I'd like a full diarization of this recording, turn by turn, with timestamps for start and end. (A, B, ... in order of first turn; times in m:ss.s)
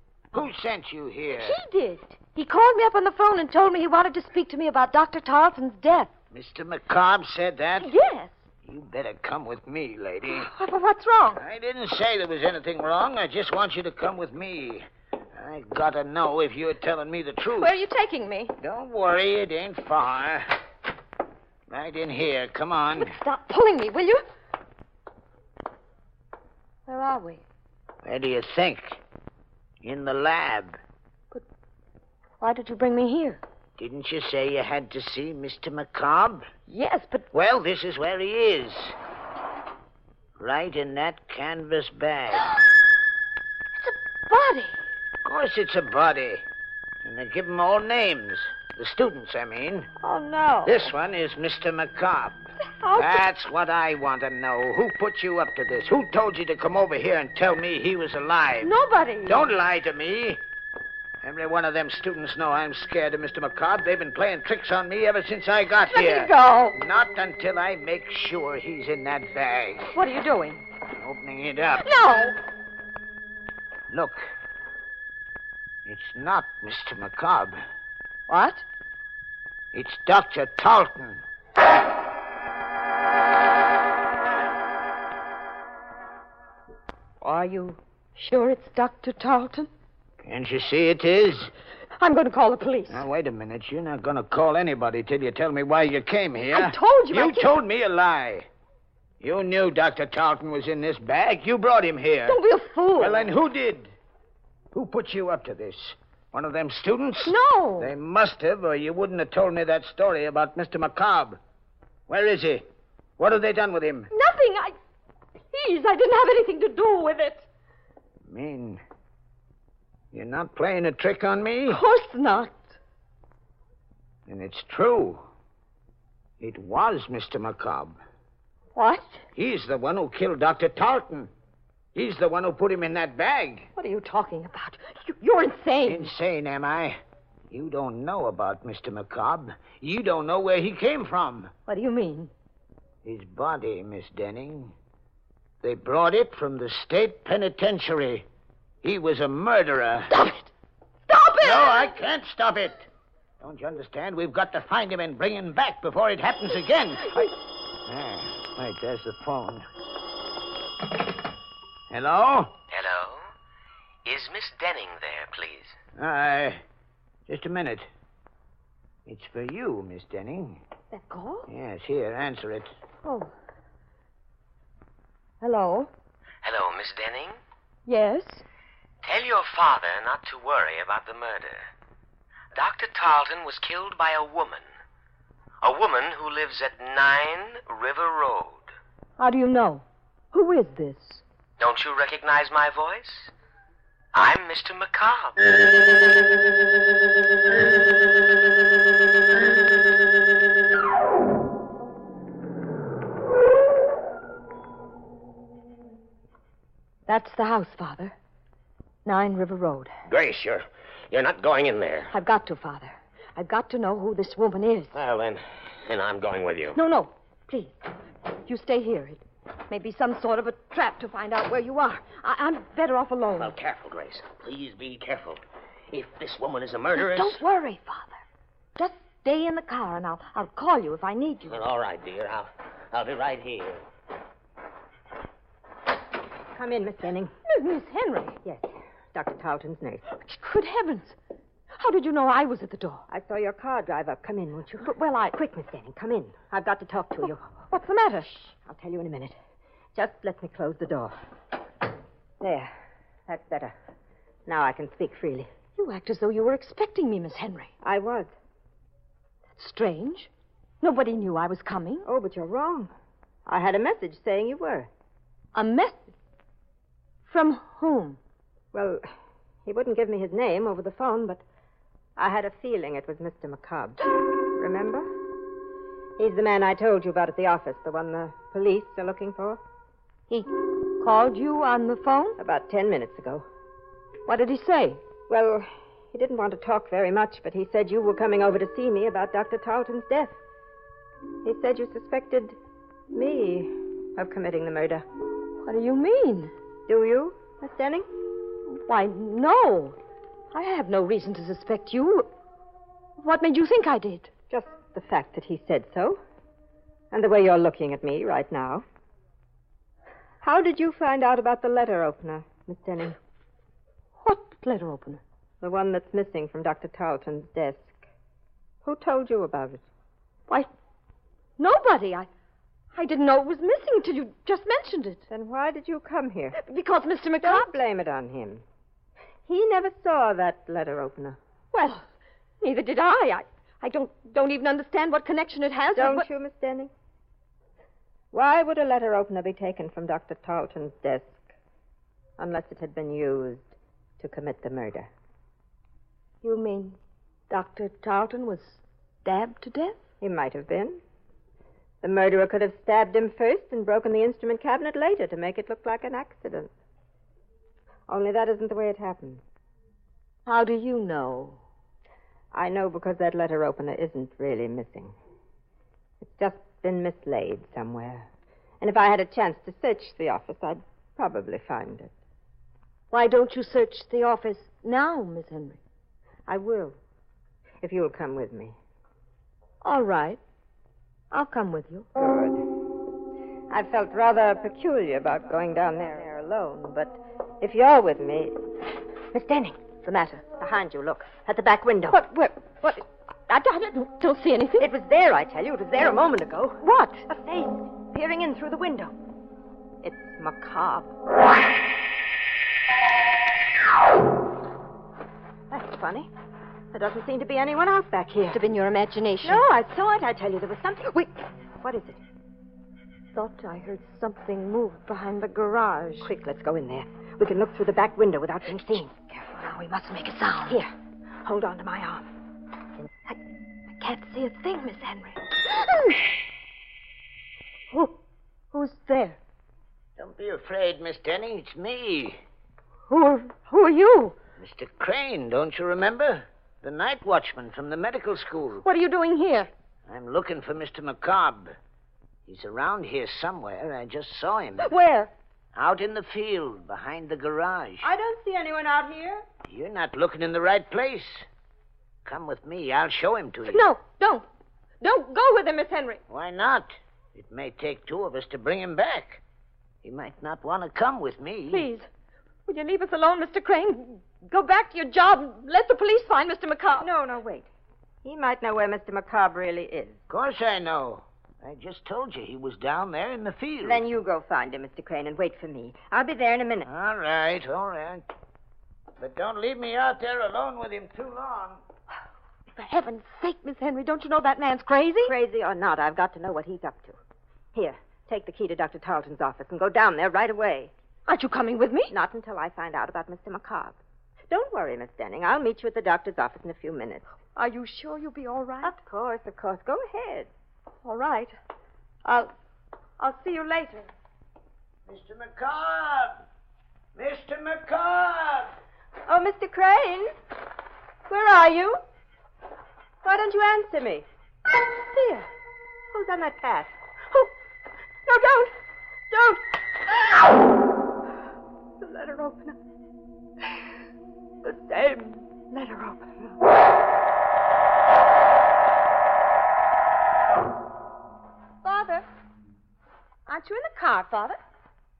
0:00.3-0:01.6 A
0:01.3-0:06.1 B
0:06.3-0:07.9 A
0:07.8-0:08.4 B
0:08.6-0:10.5 A
0:10.3-0:11.4 B
0:11.4-0:17.8 A
0:17.6-0:18.5 B
0:18.6-0:20.6 A
0:21.7-0:23.2 A
0:22.9-0:24.2 B
0:26.9-0:27.4 B
0:28.0-0:29.0 A
0:29.8-0:30.8 A
0:32.4-0:33.4 B
0:33.8-0:36.5 A
0:36.7-0:37.3 B
0:37.3-0:39.0 A
0:40.4-0:42.5 A
0:43.7-0:44.8 B
0:45.2-0:46.4 A
0:47.0-0:49.9 A
0:50.0-0:50.9 B
0:50.6-0:58.7 A
0:52.6-0:53.2 B
0:58.6-0:59.5 B
0:59.2-1:00.4 A
1:01.2-1:10.0 A
1:05.9-1:06.8 B
1:09.9-1:10.6 B
1:10.9-1:11.9 A
1:11.8-1:12.4 B
1:13.9-1:14.2 A
1:15.8-1:17.6 A
1:18.3-1:18.6 B
1:19.7-1:21.2 A
1:27.2-1:29.7 B
1:30.2-1:31.5 A
1:32.0-1:33.0 B
1:32.9-1:38.5 A
1:36.5-1:37.5 B
1:39.2-1:42.4 A
1:42.2-1:43.3 B
1:43.0-1:43.9 A
1:44.7-1:51.4 A
1:47.2-1:47.9 B
1:52.1-1:52.6 A
1:53.2-1:54.1 A
1:54.1-1:54.8 B
1:55.5-1:57.5 B
1:58.2-1:58.8 A
2:00.1-2:01.8 A
2:01.7-2:02.7 B
2:04.3-2:05.2 A
2:06.4-2:08.0 A
2:08.7-2:09.2 B
2:09.3-2:11.3 A
2:11.9-2:13.7 A
2:13.8-2:16.1 B
2:15.8-2:21.5 A
2:21.7-2:22.3 B
2:23.0-2:24.7 A
2:25.6-2:28.3 A
2:28.8-2:30.1 A
2:30.1-2:30.5 B
2:31.1-2:31.9 B
2:31.4-2:32.9 A
2:33.4-2:37.3 A
2:37.8-2:39.6 A
2:41.9-2:42.5 A
2:42.7-2:43.2 C
2:44.0-2:45.8 C
2:46.0-2:46.6 A
2:47.3-2:47.9 A
2:49.0-2:50.6 A
2:50.9-2:51.5 B
2:51.5-2:52.7 A
2:53.0-2:53.3 B
2:55.4-2:55.9 B
2:56.4-2:57.4 C
2:57.8-2:58.4 B
2:59.0-3:01.7 C
3:02.5-3:04.6 C
3:05.6-3:08.7 C
3:09.2-3:11.2 B
3:11.6-3:13.3 C
3:14.1-3:15.5 C
3:27.1-3:28.1 B
3:29.0-3:29.9 B
3:30.1-3:32.1 D
3:32.1-3:34.9 B
3:34.9-3:36.8 D
3:36.7-3:37.8 B
3:38.4-3:43.6 B
3:43.4-3:45.4 D
3:45.9-3:47.4 D
3:46.9-3:48.2 B
3:48.8-3:51.6 B
3:51.5-3:53.8 D
3:56.5-3:57.3 E
3:57.5-3:58.4 B
3:58.4-4:00.0 E
4:00.1-4:01.2 B
4:01.8-4:03.0 B
4:03.1-4:07.5 E
4:04.8-4:05.4 B
4:07.7-4:08.5 B
4:08.6-4:09.4 E
4:09.9-4:11.2 E
4:12.4-4:12.7 E
4:13.3-4:13.7 E
4:14.4-4:15.5 E
4:15.8-4:17.7 B
4:17.8-4:18.3 E
4:19.6-4:20.3 B
4:20.8-4:22.0 B
4:22.0-4:22.9 E
4:23.4-4:24.9 E
4:25.5-4:26.0 B
4:27.3-4:28.2 B
4:28.7-4:29.0 E
4:29.6-4:31.4 E
4:32.2-4:35.1 E
4:36.2-4:39.6 E
4:40.3-4:42.4 B
4:42.4-4:43.4 E
4:44.3-4:45.0 B
4:45.3-4:50.3 E
4:51.4-4:52.6 E
4:53.1-4:55.0 E
4:55.6-4:56.5 B
4:56.9-4:58.1 E
4:58.7-5:00.0 B
5:00.5-5:02.3 B
5:03.2-5:04.3 B
5:04.5-5:06.2 E
5:07.1-5:08.8 E
5:10.4-5:13.2 E
5:14.2-5:15.2 B
5:15.6-5:18.0 E
5:18.8-5:19.8 E
5:21.6-5:22.3 B
5:22.9-5:25.2 B
5:25.3-5:26.6 E
5:26.5-5:27.7 B
5:27.4-5:28.6 E
5:29.4-5:31.4 E
5:31.7-5:32.1 B
5:32.6-5:36.3 B
5:36.0-5:36.9 E
5:38.3-5:41.4 E
5:42.4-5:45.1 E
5:46.4-5:47.0 B
5:47.5-5:50.0 B
5:50.2-5:51.0 E
5:52.0-5:56.7 E
5:58.1-5:59.4 E
6:00.4-6:01.6 B
6:02.5-6:05.1 E
6:06.2-6:08.3 E
6:08.8-6:12.1 E
6:13.1-6:15.8 B
6:16.5-6:17.0 E
6:17.8-6:18.8 E
6:19.8-6:20.4 B
6:21.3-6:22.1 B
6:22.2-6:22.7 E
6:23.7-6:28.6 E
6:29.3-6:29.8 E
6:30.0-6:30.4 B
6:30.6-6:32.2 E
6:32.1-6:34.9 B
6:34.8-6:39.1 E
6:36.8-6:37.3 B
6:40.0-6:41.1 E
6:45.7-6:46.3 E
6:46.9-6:48.6 E
6:48.5-6:49.6 B
6:49.4-6:52.2 E
6:53.3-6:56.3 B
6:56.2-6:59.5 E
6:59.5-7:00.8 B
7:01.4-7:02.3 E
7:04.0-7:06.1 B
7:08.7-7:09.4 B
7:10.2-7:12.4 A
7:13.1-7:14.4 B
7:14.6-7:18.8 A
7:18.8-7:19.7 B
7:20.0-7:21.7 A
7:22.4-7:24.9 A
7:24.8-7:25.3 B
7:25.7-7:28.1 A
7:28.0-7:29.4 E
7:29.7-7:31.5 A
7:32.2-7:33.9 A
7:33.6-7:34.4 B
7:35.0-7:36.2 B
7:36.3-7:39.4 A
7:40.0-7:41.9 A
7:41.7-7:42.1 B
7:42.7-7:47.1 B
7:47.0-7:47.7 E
7:48.2-7:50.2 E
7:50.3-7:54.0 A
7:53.8-7:56.9 E
7:56.8-7:58.2 A
7:59.2-8:01.8 A
8:02.8-8:05.3 B
8:05.2-8:07.2 E
8:07.7-8:10.9 E
8:11.3-8:12.1 B
8:12.1-8:14.0 E
8:14.5-8:17.2 E
8:17.6-8:19.0 B
8:18.8-8:20.5 E
8:21.0-8:21.5 B
8:22.2-8:22.5 B
8:23.2-8:24.1 B
8:25.1-8:26.4 A
8:27.1-8:28.7 A
8:29.3-8:30.3 E
8:31.3-8:32.0 E
8:33.2-8:34.2 E
8:34.8-8:35.5 E
8:36.1-8:37.5 E
8:38.2-8:38.7 E
8:39.3-8:40.4 E
8:42.0-8:42.8 E
8:44.6-8:46.5 E
8:51.8-8:52.2 B
8:53.5-8:54.6 B